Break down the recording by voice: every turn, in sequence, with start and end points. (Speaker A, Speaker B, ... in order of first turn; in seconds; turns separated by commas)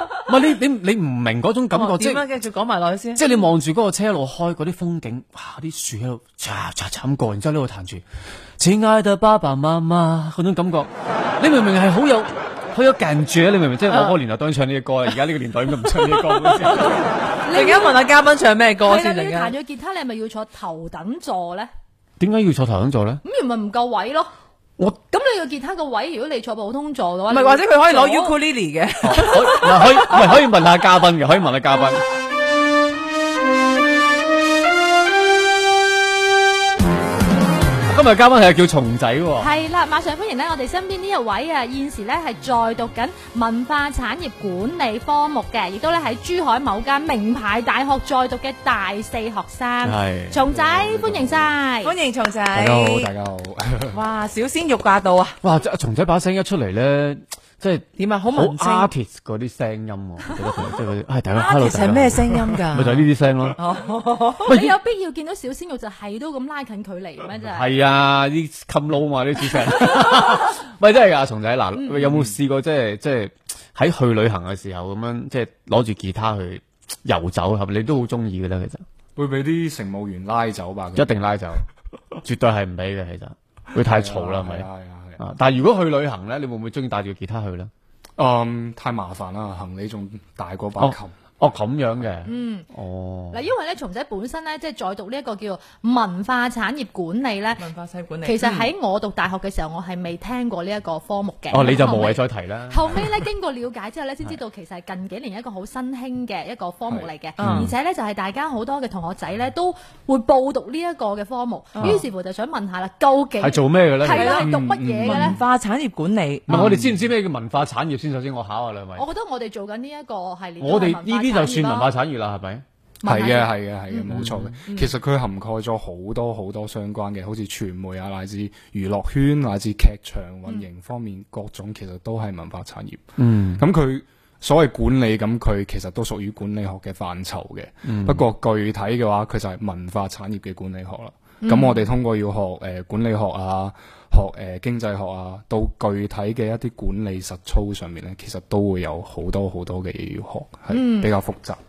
Speaker A: 0.3-2.2, Speaker B: 1.7-3.3, Speaker A: 3.1-8.0, Speaker A: 8.6-17.0, Speaker B: 13.9-14.2, Speaker B: 15.8-17.0, Speaker C: 17.4-18.0, Speaker B: 17.5-19.5, Speaker C: 18.8-21.7, Speaker A: 22.2-23.2, Speaker C: 23.2-24.3, Speaker C: 25.1-28.3, Speaker B: 27.3-30.4, Speaker A: 29.0-32.0, Speaker A: 37.9-39.5, Speaker C: 39.4-51.9, Speaker A: 49.8-50.4, Speaker D: 50.5-51.5, Speaker B: 51.8-53.1, Speaker D: 52.5-54.0, Speaker B: 53.9-55.4, Speaker A: 55.4-63.6, Speaker B: 58.0-58.9, Speaker B: 61.3-64.5, Speaker C: 64.4-67.7, Speaker A: 64.5-64.8, Speaker A: 67.5-78.8, Speaker D: 79.2-81.1, Speaker A: 81.0-81.6, Speaker A: 82.2-84.7, Speaker D: 83.7-85.2, Speaker A: 85.2-87.7, Speaker D: 88.2-91.1, Speaker A: 90.8-93.5, Speaker C: 92.2-92.7, Speaker C: 93.3-97.6, Speaker B: 97.6-98.7, Speaker C: 98.2-115.4, Speaker A: 101.5-103.2, Speaker B: 107.4-107.7, Speaker A: 107.4-107.7, Speaker B: 111.7-112.0, Speaker A: 113.4-114.4, Speaker B: 114.1-116.8, Speaker D: 114.4-115.4, Speaker A: 116.5-119.0, Speaker D: 116.5-117.0, Speaker C: 119.0-121.9, Speaker A: 120.6-122.6, Speaker C: 123.0-124.1, Speaker D: 123.0-151.6, Speaker A: 124.1-124.6, Speaker B: 124.7-124.9, Speaker A: 133.2-133.6, Speaker A: 137.8-138.2, Speaker C: 141.4-141.8, Speaker C: 150.7-151.1